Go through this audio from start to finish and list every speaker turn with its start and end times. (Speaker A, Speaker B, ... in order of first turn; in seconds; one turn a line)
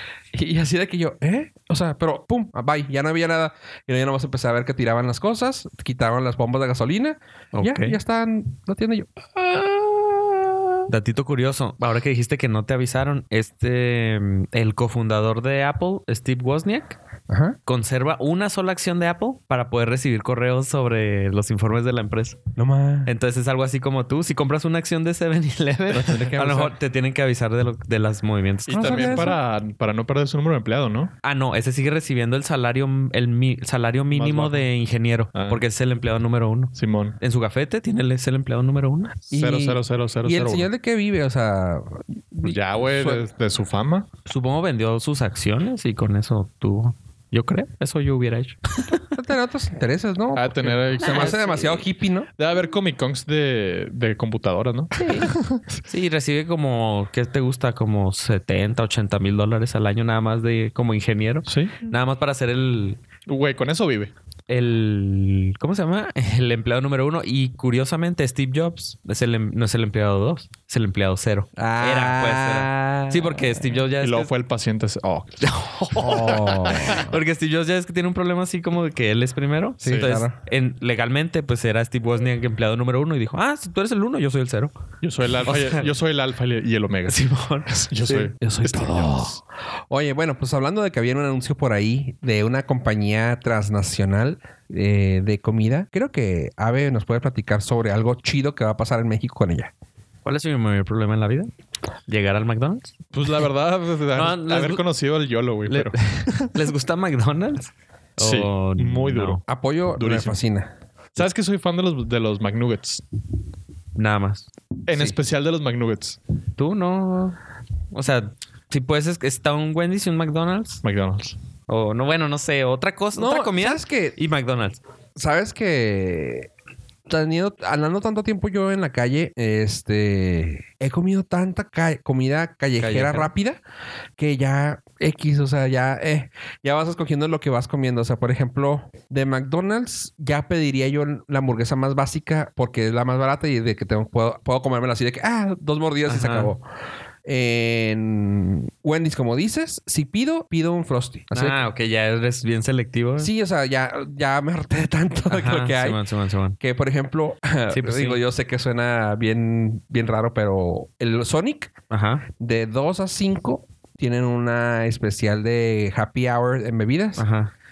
Speaker A: 0.3-10.7
Speaker B: 7.5-8.0
Speaker B: 10.9-17.0
Speaker A: 17.3-17.6
Speaker B: 17.6-22.4
Speaker A: 22.6-23.1
Speaker B: 23.1-29.3
Speaker A: 25.9-26.7
Speaker C: 28.7-31.1
Speaker A: 28.7-29.4
Speaker B: 31.2-39.2
Speaker C: 34.1-34.7
Speaker C: 35.3-35.6
Speaker C: 36.7-37.2
Speaker C: 39.3-40.7
Speaker A: 39.3-43.3
Speaker C: 42.4-44.1
Speaker B: 44.3-49.0
Speaker A: 49.1-52.3
Speaker C: 50.3-51.4
Speaker B: 51.0-51.8
Speaker C: 52.4-55.6
Speaker B: 55.0-63.0
Speaker C: 61.5-61.7
Speaker C: 63.2-64.1
Speaker B: 64.5-74.3
Speaker A: 71.5-73.7
Speaker C: 74.0-75.5
Speaker B: 75.4-84.8
Speaker A: 76.0-77.2
Speaker C: 76.1-76.9
Speaker C: 79.8-80.1
Speaker A: 79.8-80.3
Speaker C: 85.0-89.3
Speaker B: 85.4-85.9
Speaker B: 87.1-88.3
Speaker A: 88.4-99.7
Speaker B: 100.2-101.5
Speaker B: 102.1-102.9
Speaker C: 103.1-106.6
Speaker B: 104.1-104.8
Speaker B: 105.7-109.4
Speaker C: 108.2-109.4
Speaker A: 109.5-110.7
Speaker C: 110.0-110.4
Speaker C: 111.1-113.0
Speaker B: 113.9-114.5
Speaker C: 114.9-116.2
Speaker A: 114.9-115.2
Speaker B: 116.6-117.4
Speaker B: 117.9-120.8
Speaker C: 120.8-121.3
Speaker B: 121.7-124.8
Speaker A: 123.1-124.2
Speaker A: 125.2-126.5
Speaker A: 127.1-133.6
Speaker B: 132.8-133.3
Speaker A: 134.2-146.6
Speaker B: 146.1-146.5
Speaker A: 147.2-151.6
Speaker B: 151.3-153.3
Speaker A: 153.2-156.0
Speaker B: 155.3-156.6
Speaker A: 156.6-161.7
Speaker B: 157.7-158.2
Speaker B: 161.9-162.3
Speaker A: 162.4-167.2
Speaker B: 167.2-167.5